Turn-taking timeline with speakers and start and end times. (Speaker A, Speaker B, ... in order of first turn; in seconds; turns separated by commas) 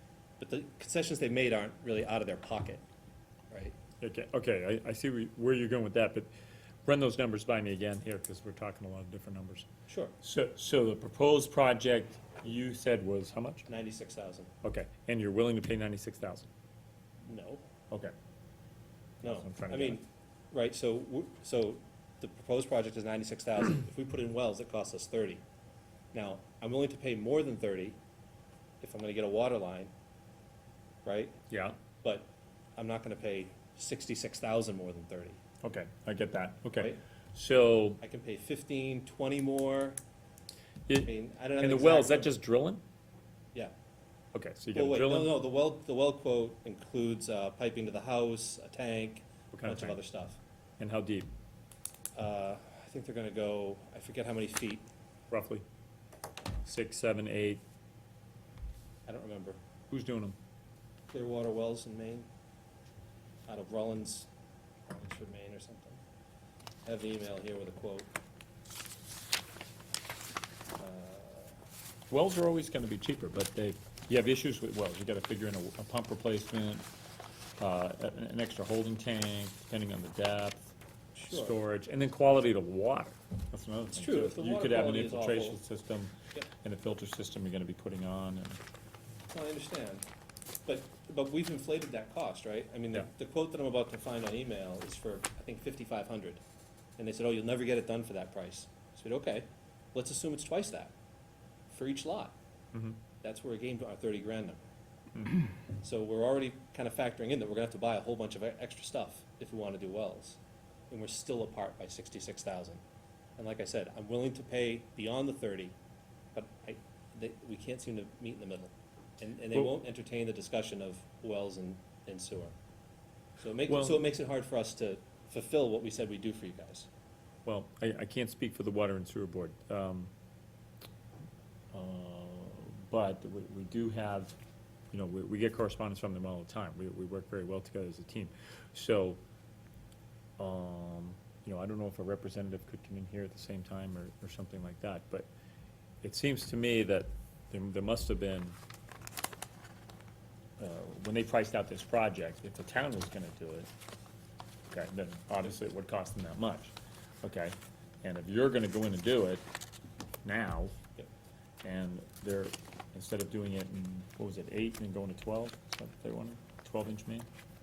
Speaker A: 0.4-2.8, Speaker A: 3.5-3.7, Speaker B: 4.0-6.3, Speaker B: 6.8-9.7, Speaker A: 9.9-10.1, Speaker B: 10.2-13.7, Speaker A: 13.7-14.5, Speaker B: 14.6-16.5, Speaker A: 17.2-17.6, Speaker A: 19.2-25.4, Speaker B: 19.2-20.0, Speaker A: 26.1-28.0, Speaker A: 28.8-29.9, Speaker A: 31.0-31.4, Speaker B: 31.5-31.8, Speaker A: 32.0-35.4, Speaker B: 35.6-38.0, Speaker A: 38.0-40.0, Speaker B: 40.9-42.8, Speaker A: 41.0-42.4, Speaker B: 44.3-45.3, Speaker A: 44.7-50.4, Speaker B: 49.5-50.0, Speaker B: 50.8-51.3, Speaker A: 52.1-54.9, Speaker B: 55.3-55.6, Speaker B: 56.6-57.6, Speaker A: 59.0-59.6, Speaker B: 59.9-60.4, Speaker A: 61.1-62.3, Speaker A: 63.5-64.3, Speaker A: 64.9-66.0, Speaker A: 66.8-68.1, Speaker A: 70.8-71.5, Speaker B: 72.1-76.8, Speaker B: 77.6-80.7, Speaker A: 81.1-81.5, Speaker B: 81.3-88.6, Speaker A: 83.9-85.6, Speaker A: 89.3-90.0, Speaker A: 90.7-96.4, Speaker A: 97.0-100.9, Speaker A: 101.7-102.3, Speaker B: 102.7-103.0, Speaker A: 103.2-104.6, Speaker B: 105.1-105.5, Speaker A: 105.8-110.4, Speaker A: 110.9-112.8, Speaker A: 113.4-115.8, Speaker A: 116.3-122.5, Speaker A: 123.4-126.9, Speaker B: 123.7-124.0, Speaker B: 127.5-130.1, Speaker B: 131.7-134.3, Speaker B: 134.9-139.2, Speaker B: 140.4-145.3, Speaker B: 146.0-148.6, Speaker B: 150.6-153.7, Speaker B: 154.7-159.4, Speaker B: 160.2-160.7, Speaker B: 161.6-167.3